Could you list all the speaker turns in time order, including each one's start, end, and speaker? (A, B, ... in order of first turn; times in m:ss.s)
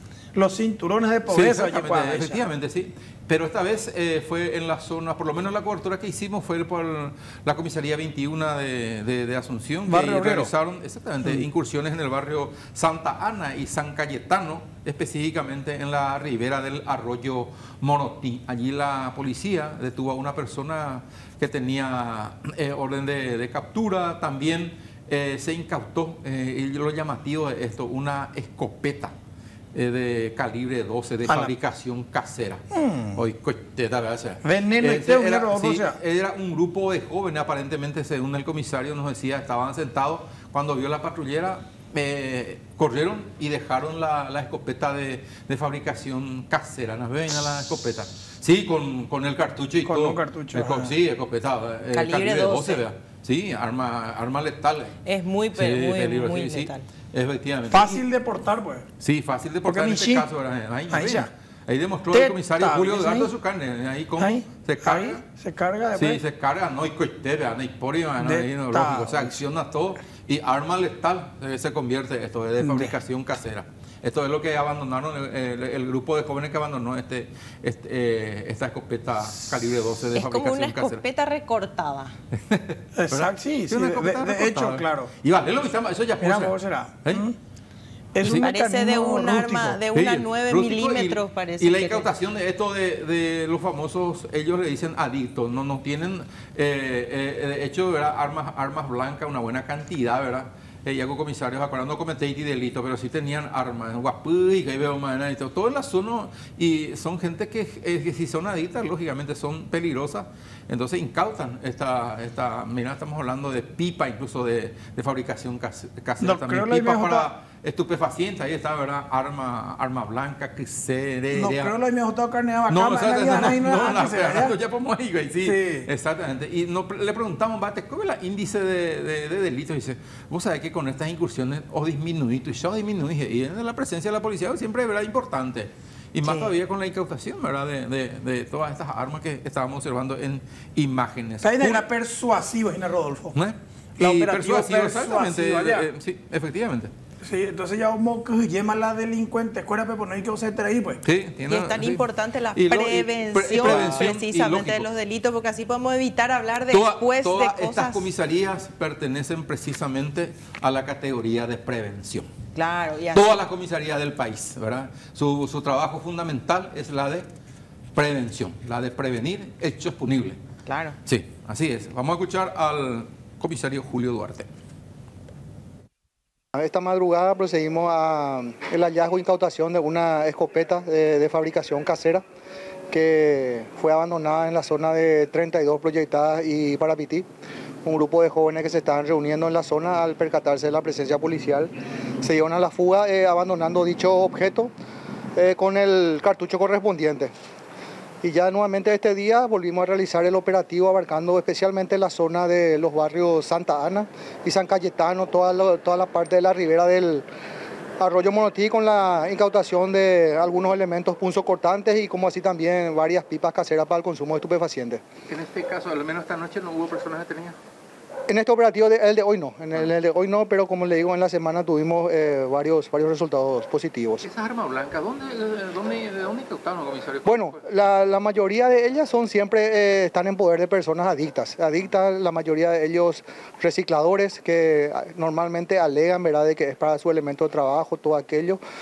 0:00.3-0:02.4 A
0:01.3-0:29.1 B
0:09.9-0:10.5 A
0:29.7-0:55.0 B
0:34.4-0:36.0 A
0:49.8-0:50.9 A
0:51.9-0:52.8 C
0:55.0-0:56.9 C
0:55.5-0:58.0 B
0:57.7-0:58.8 A
0:59.0-1:05.2 B
0:59.6-1:00.3 A
1:00.9-1:01.3 A
1:02.1-1:03.3 A
1:04.2-1:06.2 A
1:05.9-1:21.0 B
1:08.2-1:09.3 A
1:12.6-1:12.9 A
1:20.1-1:22.1 C
1:22.3-1:27.3 B
1:23.0-1:25.1 A
1:26.2-1:27.3 A
1:28.1-1:29.8 A
1:28.2-1:28.5 B
1:28.2-1:32.1 C
1:29.9-2:01.7 B
1:56.2-1:57.3 A
2:01.3-2:04.5 A
2:02.7-2:21.8 B
2:05.4-2:05.9 A
2:16.2-2:16.5 C
2:21.4-2:23.3 A
2:23.3-2:26.9 B
2:24.0-2:25.9 A
2:27.2-2:31.0 A
2:31.0-2:34.9 B
2:31.5-2:38.0 C
2:33.6-2:34.0 A
2:36.7-2:42.3 B
2:42.5-2:43.4 C
2:43.1-2:47.3 B
2:47.9-2:50.4 B
2:50.6-2:51.0 C
2:51.0-2:54.5 B
2:56.5-3:02.2 D
3:02.9-3:07.2 D
3:07.8-3:11.7 D
3:12.2-3:14.7 D
3:15.3-3:17.3 D
3:18.2-3:27.2 D
3:28.0-3:35.0 D
3:35.3-3:37.6 B
3:38.3-3:44.2 D
3:44.2-3:47.6 B
3:47.2-3:58.6 D